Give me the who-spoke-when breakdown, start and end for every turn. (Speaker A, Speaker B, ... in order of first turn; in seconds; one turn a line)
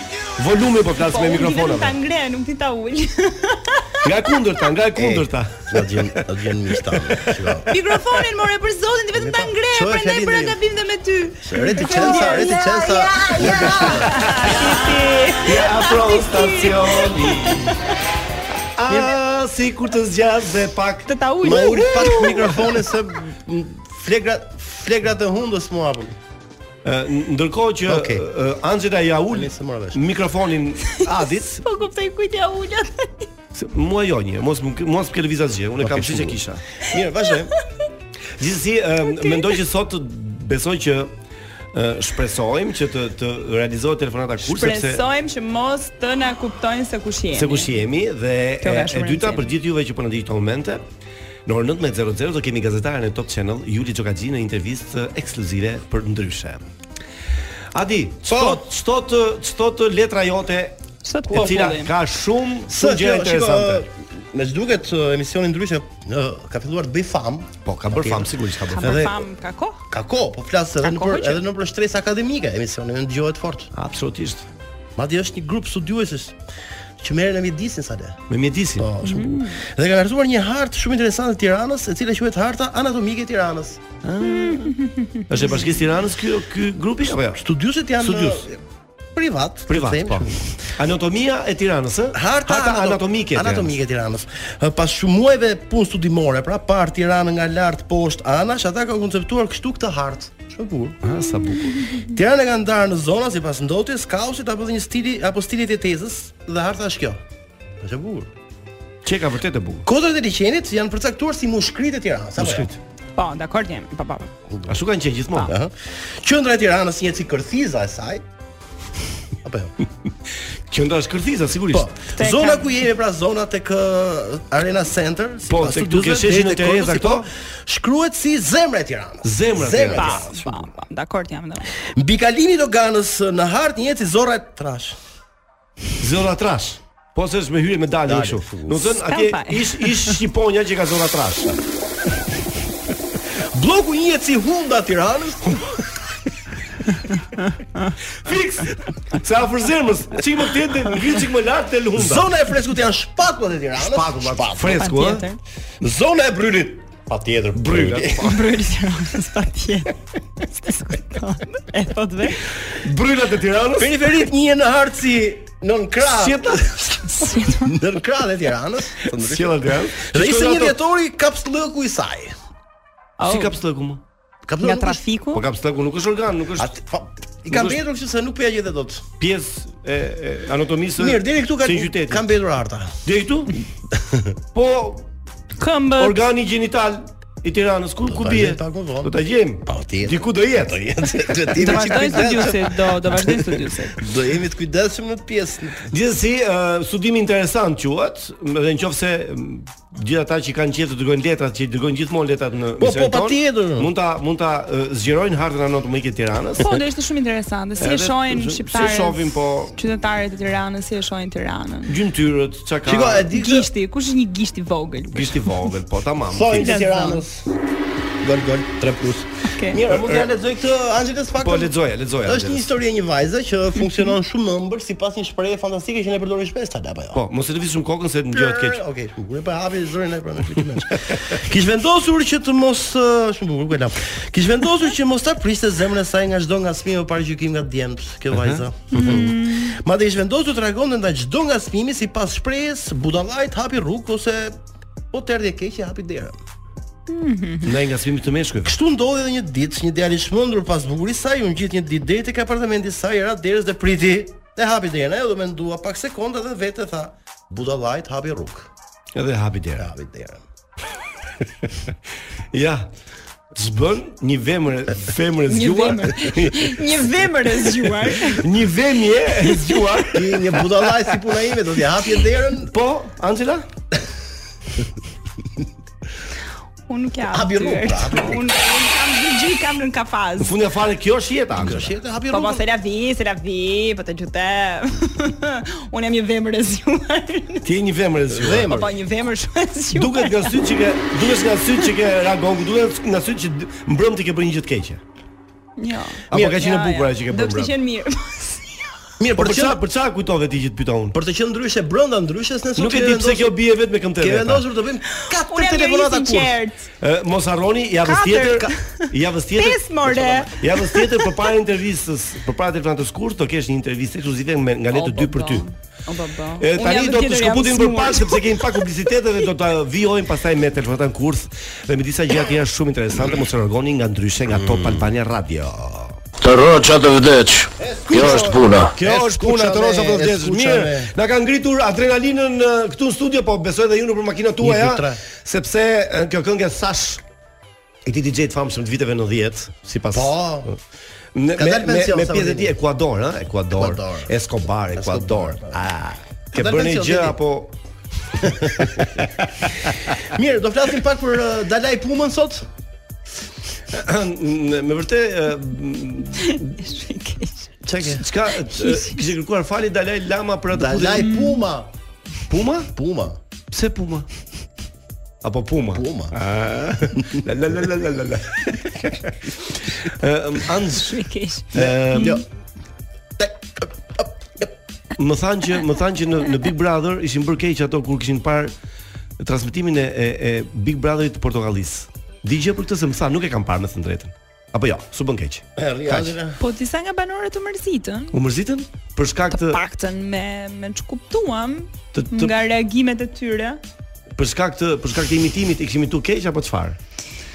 Speaker A: 0.3-1.9
Speaker B: 1.1-4.3
Speaker A: 4.0-6.2
Speaker C: 4.9-7.7
Speaker B: 7.7-17.8
Speaker C: 9.1-10.6
Speaker C: 11.4-14.5
Speaker A: 13.4-14.6
Speaker A: 15.4-17.7
Speaker A: 18.8-22.4
Speaker B: 21.1-22.6
Speaker C: 21.4-26.2
Speaker A: 26.8-31.6
Speaker C: 27.9-28.2
Speaker C: 29.3-30.0
Speaker B: 31.4-33.3
Speaker A: 33.5-36.6
Speaker C: 35.8-37.5
Speaker A: 38.4-41.1
Speaker B: 39.2-39.5
Speaker A: 41.7-45.0
Speaker B: 44.5-47.7
Speaker A: 47.3-50.8
Speaker B: 48.6-49.5
Speaker A: 51.5-56.6
Speaker A: 57.7-60.8
Speaker C: 58.3-58.6
Speaker B: 61.0-61.9
Speaker A: 61.3-63.8
Speaker C: 61.3-61.7
Speaker C: 62.7-68.3
Speaker A: 67.6-69.2
Speaker B: 68.7-69.8
Speaker C: 69.9-73.7
Speaker B: 70.8-71.4
Speaker A: 73.7-74.5
Speaker C: 75.0-76.4
Speaker C: 77.0-78.2
Speaker A: 78.3-78.9
Speaker C: 78.8-83.8
Speaker B: 79.0-79.6
Speaker A: 84.0-87.4
Speaker B: 84.2-85.2
Speaker C: 87.3-88.6
Speaker A: 88.0-88.5
Speaker C: 89.1-90.5
Speaker A: 89.7-93.7
Speaker C: 92.1-101.0
Speaker A: 101.0-101.9
Speaker B: 101.4-102.0
Speaker C: 102.1-107.2
Speaker C: 107.8-108.3
Speaker A: 109.0-109.8
Speaker C: 109.8-112.7
Speaker A: 112.4-112.8
Speaker B: 113.2-114.3
Speaker A: 114.7-115.5
Speaker C: 115.4-118.2
Speaker C: 119.4-119.7
Speaker A: 120.7-121.9
Speaker C: 121.7-130.7
Speaker B: 122.2-122.7
Speaker A: 125.5-127.3
Speaker A: 129.2-130.2
Speaker B: 130.0-131.7
Speaker C: 131.9-135.0
Speaker A: 136.0-141.6
Speaker C: 138.1-138.9
Speaker B: 139.1-140.2
Speaker C: 143.5-145.6
Speaker A: 148.2-152.3
Speaker C: 151.9-154.9
Speaker A: 153.8-155.2
Speaker B: 154.8-155.4
Speaker C: 155.8-158.3
Speaker A: 157.6-158.5
Speaker B: 158.2-162.4
Speaker A: 162.6-164.2
Speaker C: 163.8-166.9
Speaker A: 166.1-167.0
Speaker B: 167.1-167.8
Speaker C: 167.6-172.3
Speaker A: 169.1-170.8
Speaker B: 173.2-173.6
Speaker A: 173.2-174.0
Speaker C: 174.4-175.0
Speaker B: 174.6-175.4
Speaker A: 175.3-176.7
Speaker C: 176.6-179.1
Speaker A: 177.5-177.8
Speaker A: 179.2-182.3
Speaker C: 181.0-183.0
Speaker A: 183.0-183.6
Speaker C: 183.9-184.3
Speaker A: 184.5-185.1
Speaker B: 185.6-186.2
Speaker A: 186.0-190.9
Speaker C: 188.1-195.9
Speaker B: 191.6-194.0
Speaker A: 191.6-192.2
Speaker A: 195.9-206.8
Speaker C: 202.8-203.9
Speaker B: 206.6-211.9
Speaker A: 207.8-209.8
Speaker A: 211.9-213.3
Speaker C: 212.8-213.7
Speaker B: 213.3-215.7
Speaker A: 215.1-216.8
Speaker C: 216.3-217.5
Speaker B: 216.5-217.2
Speaker C: 218.2-227.2
Speaker B: 219.4-219.8
Speaker A: 219.9-220.3
Speaker A: 221.4-222.7
Speaker A: 227.1-228.8
Speaker C: 228.3-244.6
Speaker A: 238.3-238.6
Speaker B: 238.9-239.8
Speaker C: 245.1-246.4
Speaker B: 247.1-247.7
Speaker A: 247.6-248.8
Speaker C: 248.6-258.7
Speaker A: 259.1-259.9
Speaker C: 259.8-260.4
Speaker A: 262.5-262.9
Speaker A: 263.5-266.8
Speaker B: 265.5-268.4
Speaker A: 268.1-271.2
Speaker C: 270.1-272.7
Speaker A: 272.6-273.7
Speaker B: 276.9-280.5
Speaker C: 277.3-278.4
Speaker A: 280.4-281.9
Speaker C: 281.6-282.6
Speaker B: 282.3-287.7
Speaker A: 287.6-288.7
Speaker C: 288.3-288.9
Speaker B: 288.7-290.6
Speaker A: 289.9-295.0
Speaker B: 295.8-298.9
Speaker C: 296.3-296.6
Speaker A: 296.3-297.7
Speaker C: 299.2-299.8
Speaker A: 299.4-301.2
Speaker C: 301.1-303.6
Speaker A: 302.8-304.6
Speaker C: 304.2-306.6
Speaker B: 305.2-306.9
Speaker A: 307.0-315.6
Speaker B: 308.0-311.3
Speaker B: 314.9-318.4
Speaker A: 316.6-326.2
Speaker C: 324.5-325.1
Speaker D: 326.4-328.9
Speaker C: 327.8-331.1
Speaker A: 328.1-337.2
Speaker C: 334.6-335.2
Speaker A: 338.0-340.8
Speaker C: 340.1-340.7
Speaker A: 341.3-347.7
Speaker C: 341.6-342.7
Speaker C: 343.7-344.3
Speaker C: 344.9-345.8
Speaker C: 346.5-347.4
Speaker A: 348.3-349.9
Speaker C: 348.4-349.0
Speaker C: 350.2-352.7
Speaker A: 353.9-356.7
Speaker B: 356.4-357.7
Speaker C: 357.8-358.2
Speaker A: 358.0-361.4
Speaker B: 358.7-359.2
Speaker C: 360.7-361.9
Speaker B: 361.2-361.6
Speaker A: 362.5-362.9
Speaker C: 362.9-363.4
Speaker A: 363.7-364.3
Speaker A: 365.4-371.1
Speaker C: 365.9-366.4
Speaker B: 370.9-372.4
Speaker A: 371.7-372.4
Speaker C: 371.7-372.4
Speaker C: 373.4-374.7
Speaker A: 375.2-378.7
Speaker A: 379.4-386.3
Speaker C: 385.8-386.6
Speaker B: 386.6-388.4
Speaker A: 388.3-389.8
Speaker B: 389.5-393.8
Speaker A: 392.1-392.5
Speaker A: 394.4-397.0